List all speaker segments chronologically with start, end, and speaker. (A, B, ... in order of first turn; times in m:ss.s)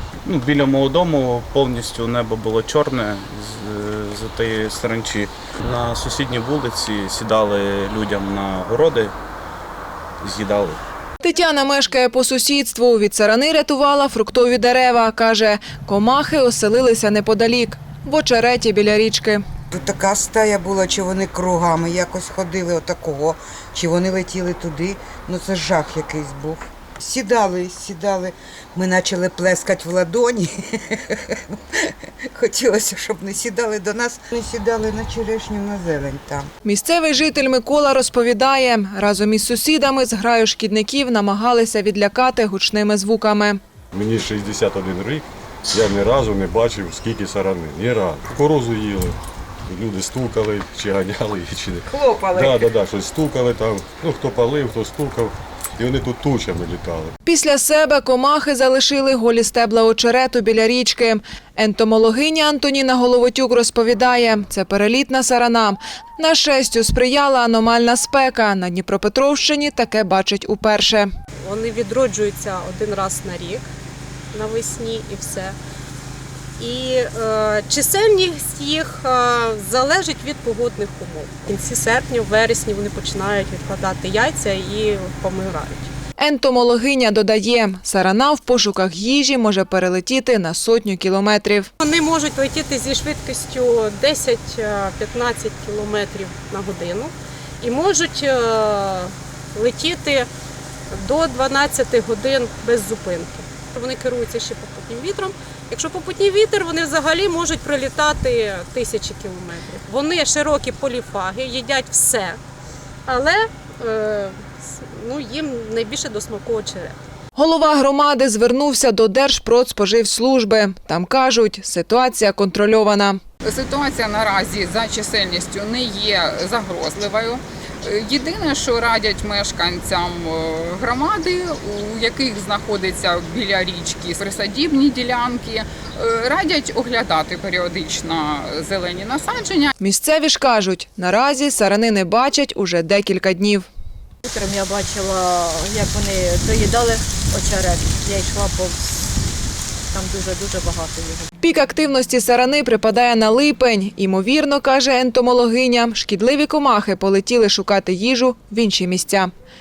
0:00.2-0:09.1 A
0:10.2-0:10.8 A
0:11.2-0:19.4 B
0:19.7-0:36.5 C
0:36.6-0:43.6 B
0:43.9-0:49.2 D
0:49.7-0:57.1 D
0:51.9-0:52.7 C
0:57.2-1:11.1 B
1:11.4-1:13.7 E
1:14.3-1:15.6 E
1:16.6-1:25.9 E
1:26.2-1:31.7 B
1:31.8-1:40.3 E
1:40.9-1:52.4 E
1:53.1-1:57.0 E
1:57.3-2:03.2 B
2:03.4-2:19.7 F
2:19.8-2:23.6 B
2:24.2-2:29.2 G
2:29.9-2:31.3 G
2:31.4-2:39.3 B